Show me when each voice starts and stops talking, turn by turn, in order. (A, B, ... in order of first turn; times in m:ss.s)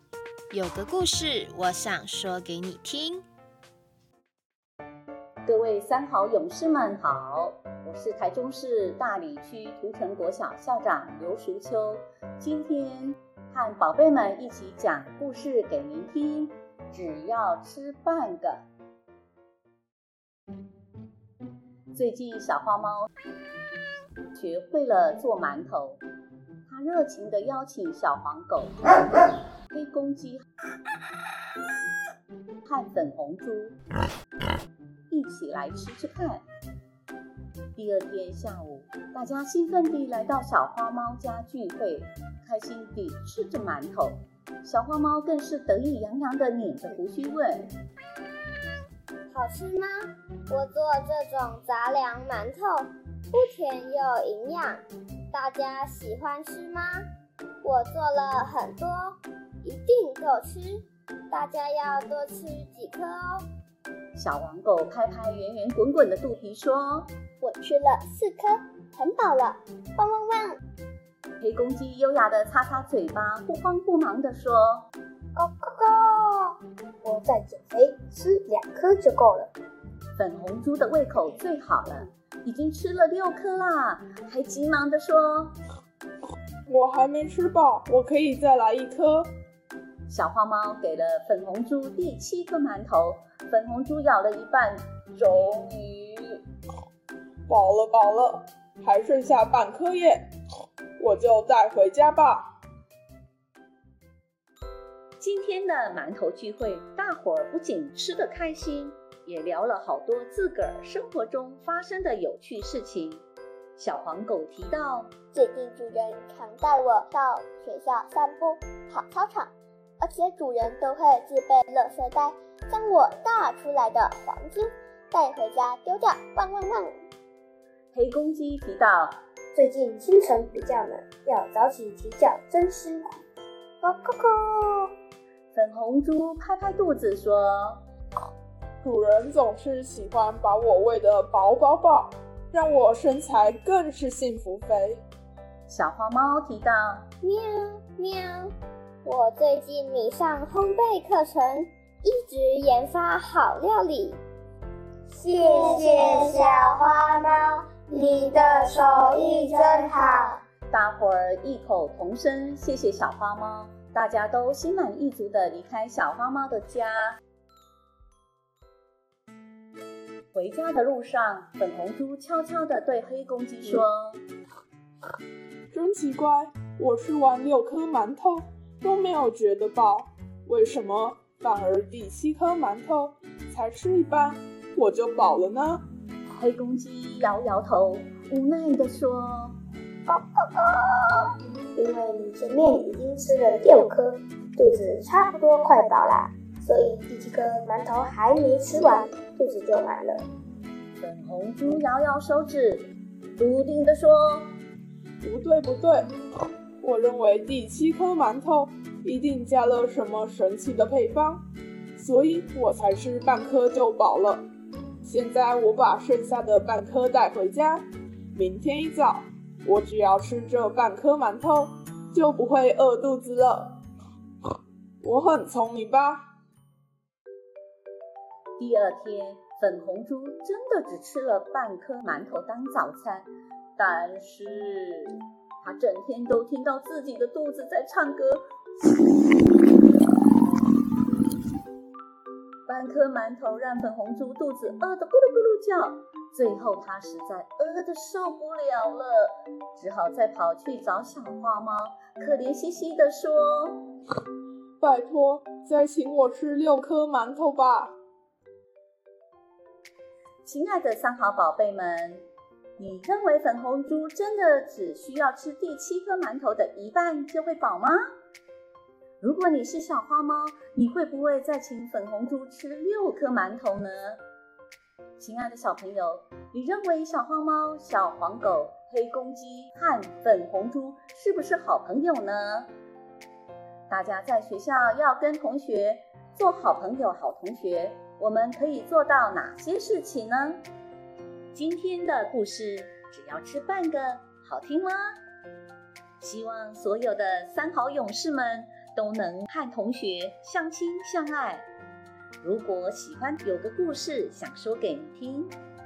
0:00.5-0:03.2 A
0:05.5-0:18.6 B
0:21.9-0:23.1 B
0:24.3-0:26.0 B
0:26.7-0:28.8 B
0:29.7-0:30.4 B
0:32.6-0:33.8 B
0:35.1-0:36.4 B
0:37.7-0:47.7 B
0:49.3-0:57.0 C
0:57.6-1:03.4 C
1:04.1-1:07.1 B
1:07.4-1:10.6 C
1:11.4-1:14.9 B
1:15.3-1:19.5 D
1:20.2-1:25.6 B
1:26.7-1:29.3 E
1:30.1-1:36.4 B
1:37.5-1:40.2 E
1:41.0-1:42.4 E
1:45.2-1:53.2 B
1:53.8-1:55.1 B
1:55.3-2:07.0 C
2:07.9-2:09.2 B
2:09.5-2:13.2 D
2:13.8-2:14.9 D
2:15.5-2:17.8 B
2:18.8-2:25.0 E
2:25.7-2:27.1 B
2:27.2-2:28.5 C
2:29.0-2:34.2 C
2:35.1-2:40.3 D
2:35.4-2:37.2 C
2:38.2-2:40.4 C
2:40.7-2:47.2 B
2:50.3-2:54.2 B
2:55.7-3:05.8 E
3:06.3-3:09.6 B
3:10.1-3:11.2 D
3:11.7-3:20.2 D
3:21.0-3:24.6 B
3:25.2-3:26.1 E
3:26.8-3:31.4 E
3:32.0-3:34.4 E
3:35.0-3:43.8 E
3:45.0-3:46.2 E
3:48.6-3:58.4 B
4:02.7-4:13.9 B
4:14.8-4:17.9 E
4:20.4-4:22.2 B
4:22.8-4:28.0 B
4:29.2-4:34.2 B
4:35.2-4:42.7 B
4:43.9-4:50.6 B
4:51.5-4:55.1 B
4:56.2-5:01.7 B
5:02.4-5:05.5 B